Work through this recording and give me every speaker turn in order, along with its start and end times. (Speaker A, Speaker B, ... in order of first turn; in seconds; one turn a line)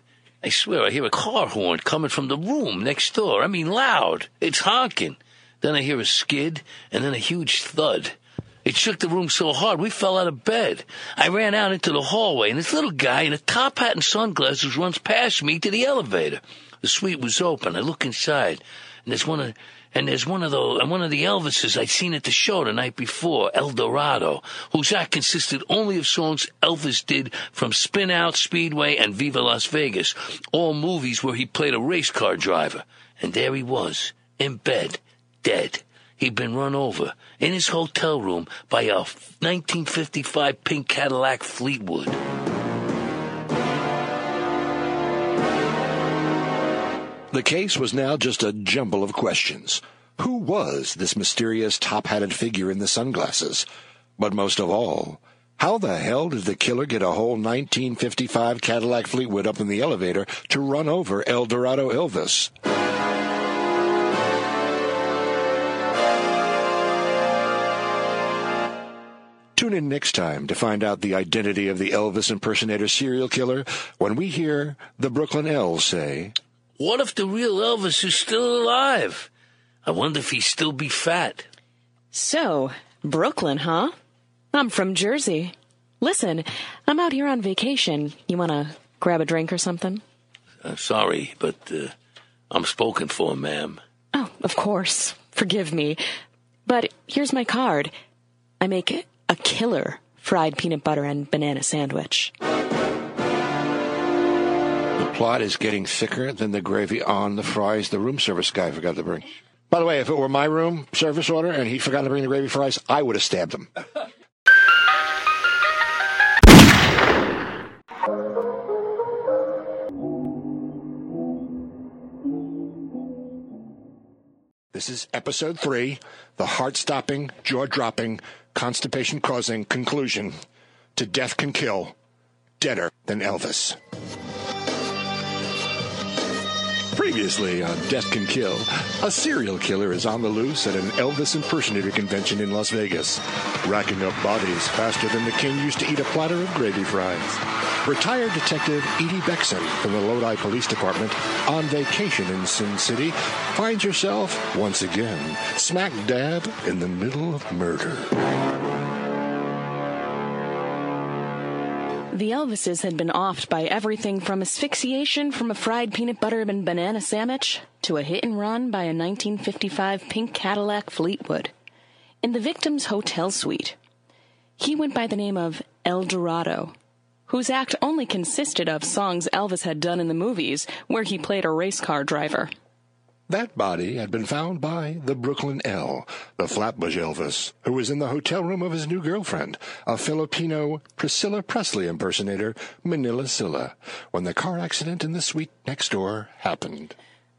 Speaker A: 0.4-42.2
Speaker B: 47.3-53.7
Speaker B: 54.2-62.5
Speaker B: 69.5-76.3
Speaker A: 76.8-79.3
Speaker A: 79.8-81.5
Speaker C: 82.1-83.9
Speaker C: 84.5-90.0
Speaker A: 90.6-91.9
Speaker A: 92.5-93.8
Speaker C: 94.1-96.0
Speaker C: 96.7-97.9
Speaker C: 98.6-102.3
Speaker B: 105.0-113.7
Speaker B: 124.7-130.4
Speaker B: 130.9-131.9
Speaker B: 132.6-133.8
Speaker B: 136.9-158.2
Speaker C: 162.1-171.5
Speaker C: 172.2-173.7
Speaker C: 174.6-176.7
Speaker C: 177.3-182.5
Speaker B: 183.3-196.9